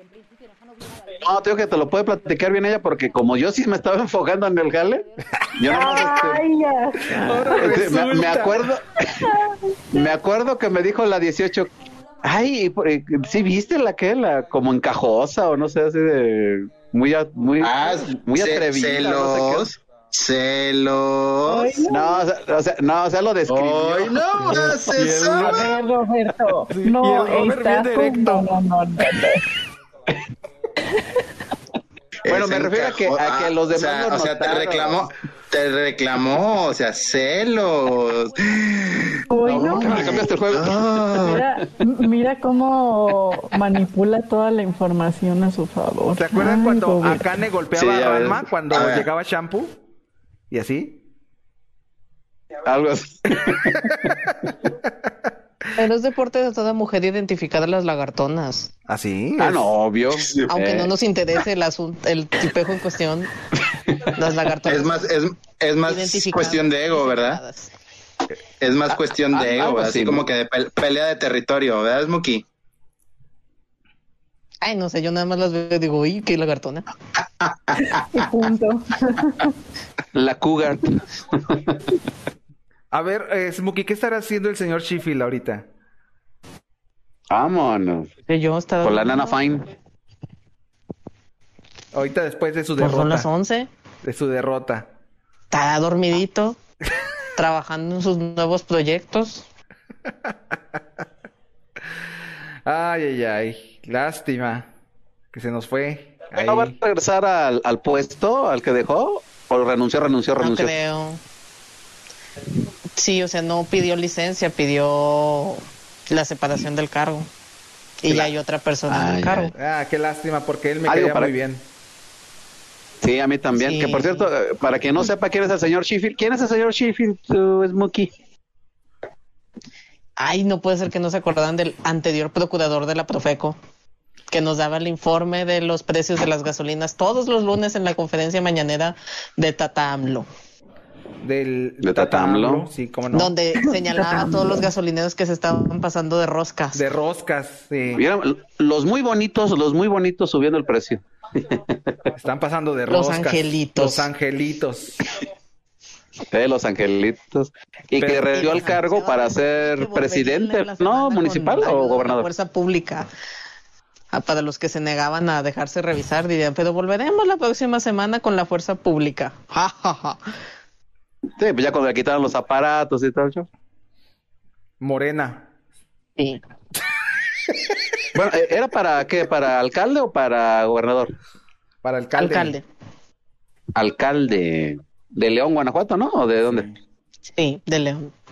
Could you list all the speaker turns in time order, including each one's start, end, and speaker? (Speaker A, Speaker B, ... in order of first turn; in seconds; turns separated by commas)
Speaker A: 1.2-5.0, Speaker A: 5.6-6.5, Speaker B: 5.6-8.0, Speaker C: 7.1-8.7, Speaker A: 7.6-9.2, Speaker B: 9.2-9.5, Speaker A: 9.9-11.7, Speaker A: 12.2-19.7, Speaker D: 17.6-21.9, Speaker B: 21.4-22.2, Speaker A: 21.8-24.3, Speaker D: 23.5-25.8, Speaker C: 24.3-25.7, Speaker B: 25.4-29.4, Speaker C: 26.7-28.5, Speaker D: 32.2-41.4, Speaker A: 32.3-35.0, Speaker B: 39.3-40.0, Speaker C: 39.5-40.2, Speaker A: 39.5-41.7, Speaker B: 41.2-47.3, Speaker C: 46.1-49.8, Speaker A: 47.7-48.4, Speaker D: 48.7-49.0, Speaker C: 50.5-51.0, Speaker A: 52.6-54.0, Speaker E: 55.8-58.7, Speaker C: 58.9-59.7, Speaker A: 59.4-60.9, Speaker E: 60.5-63.3, Speaker A: 63.9-64.1, Speaker E: 64.1-65.0, Speaker D: 64.7-67.4, Speaker E: 65.8-67.7, Speaker D: 68.6-72.4, Speaker A: 69.3-70.2, Speaker E: 74.6-76.8, Speaker B: 77.8-79.5, Speaker A: 80.1-81.7, Speaker C: 82.9-85.7, Speaker A: 87.3-88.1, Speaker E: 88.3-89.4, Speaker A: 88.8-89.6, Speaker C: 91.9-93.3, Speaker E: 92.8-93.7, Speaker C: 94.0-94.9, Speaker E: 95.5-96.6, Speaker E: 97.4-99.5, Speaker C: 102.6-104.7, Speaker C: 105.3-106.8, Speaker A: 106.3-110.7, Speaker E: 110.4-111.2, Speaker E: 113.0-117.3, Speaker E: 118.0-119.5, Speaker A: 118.9-119.5, Speaker C: 119.5-121.7, Speaker A: 120.8-121.3, Speaker A: 123.0-128.1, Speaker E: 123.5-124.3, Speaker E: 130.2-133.6, Speaker E: 134.3-140.3, Speaker C: 141.2-143.3, Speaker A: 141.8-142.7, Speaker E: 143.1-146.8, Speaker B: 143.6-144.6, Speaker C: 146.7-148.0, Speaker A: 147.9-151.7, Speaker C: 152.2-155.0, Speaker E: 152.9-154.1, Speaker A: 156.3-162.3, Speaker C: 158.0-158.8, Speaker E: 158.3-163.1, Speaker E: 164.1-170.2, Speaker A: 171.4-173.5, Speaker C: 174.8-175.5, Speaker A: 178.1-181.1, Speaker C: 181.8-182.6, Speaker E: 182.2-182.6, Speaker A: 183.7-186.7, Speaker C: 186.4-186.8, Speaker E: 187.4-188.1